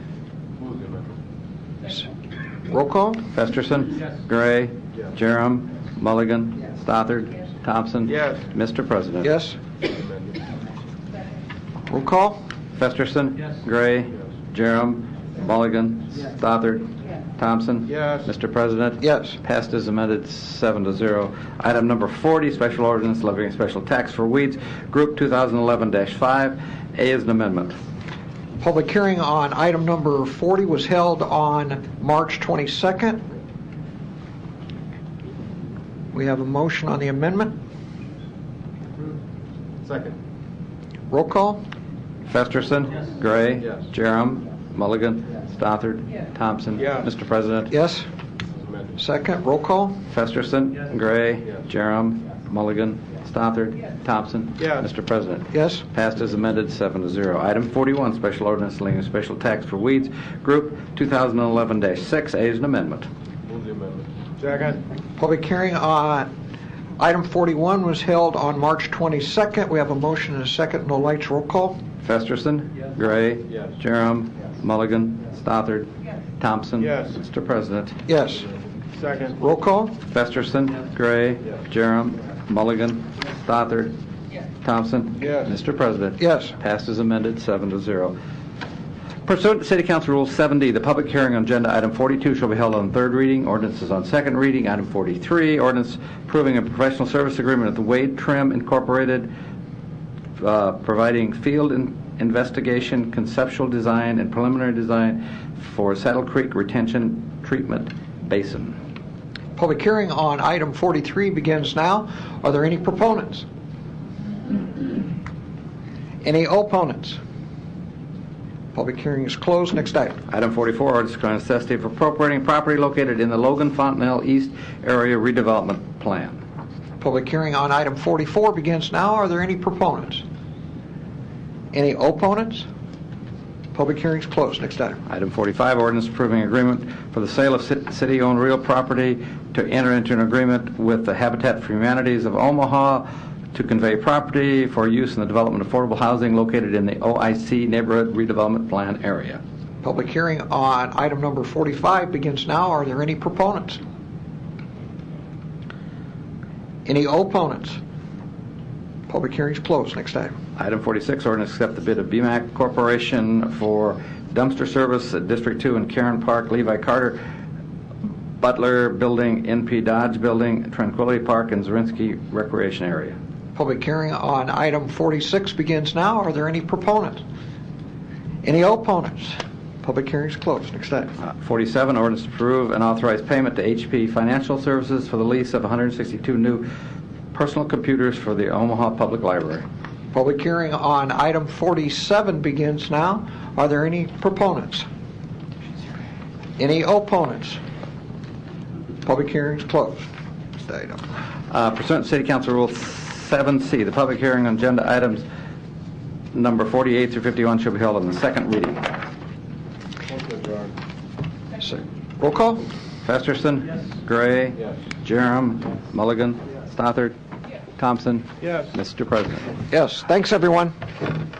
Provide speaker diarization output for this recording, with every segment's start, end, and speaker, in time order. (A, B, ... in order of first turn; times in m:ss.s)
0:00.6-0:01.0 A
0:02.7-0:03.2 B
0:03.3-0:09.3 C
0:08.1-0:08.4 A
0:09.2-0:09.6 B
0:11.9-0:12.4 B
0:12.8-0:27.8 C
0:17.9-0:18.3 A
0:19.0-0:19.4 B
0:28.6-0:33.2 B
0:36.1-0:37.6 B
0:39.8-0:40.2 A
0:41.1-0:41.6 B
0:42.3-0:47.7 C
0:47.7-0:48.0 B
0:49.0-0:50.0 B
0:50.1-1:03.1 C
0:54.6-0:54.8 A
0:55.5-0:55.8 B
1:03.5-1:04.8 A
1:05.2-1:06.3 B
1:07.0-1:11.8 B
1:12.0-1:18.0 C
1:16.8-1:17.2 A
1:18.0-1:18.5 B
1:18.9-1:19.4 A
1:19.4-1:20.0 B
1:20.0-1:23.9 C
1:24.6-1:28.2 C
1:25.2-1:25.5 A
1:26.2-1:26.5 B
1:29.2-1:39.3 C
1:40.4-1:48.8 C
1:49.6-1:53.4 B
1:56.2-1:57.2 B
1:58.7-2:00.2 B
2:00.3-2:06.4 C
2:07.0-2:10.2 B
2:11.7-2:12.7 B
2:13.7-2:15.0 B
2:15.1-2:29.4 C
2:29.8-2:33.8 B
2:36.8-2:37.8 B
2:39.1-2:40.3 B
2:40.6-2:47.2 C
2:48.4-2:53.2 C
2:53.5-2:57.2 B
2:58.4-3:01.2 B
3:01.2-3:06.7 C
3:07.3-3:09.6 C
3:10.1-3:14.8 B
3:16.6-3:17.6 B
3:19.0-3:20.1 B
3:20.6-3:21.0 B
3:21.5-3:25.2 C
3:26.3-3:28.9 C
3:30.1-3:30.7 A
3:31.6-3:32.6 B
3:33.0-3:37.1 C
3:37.8-3:39.5 C
3:39.7-3:40.7 B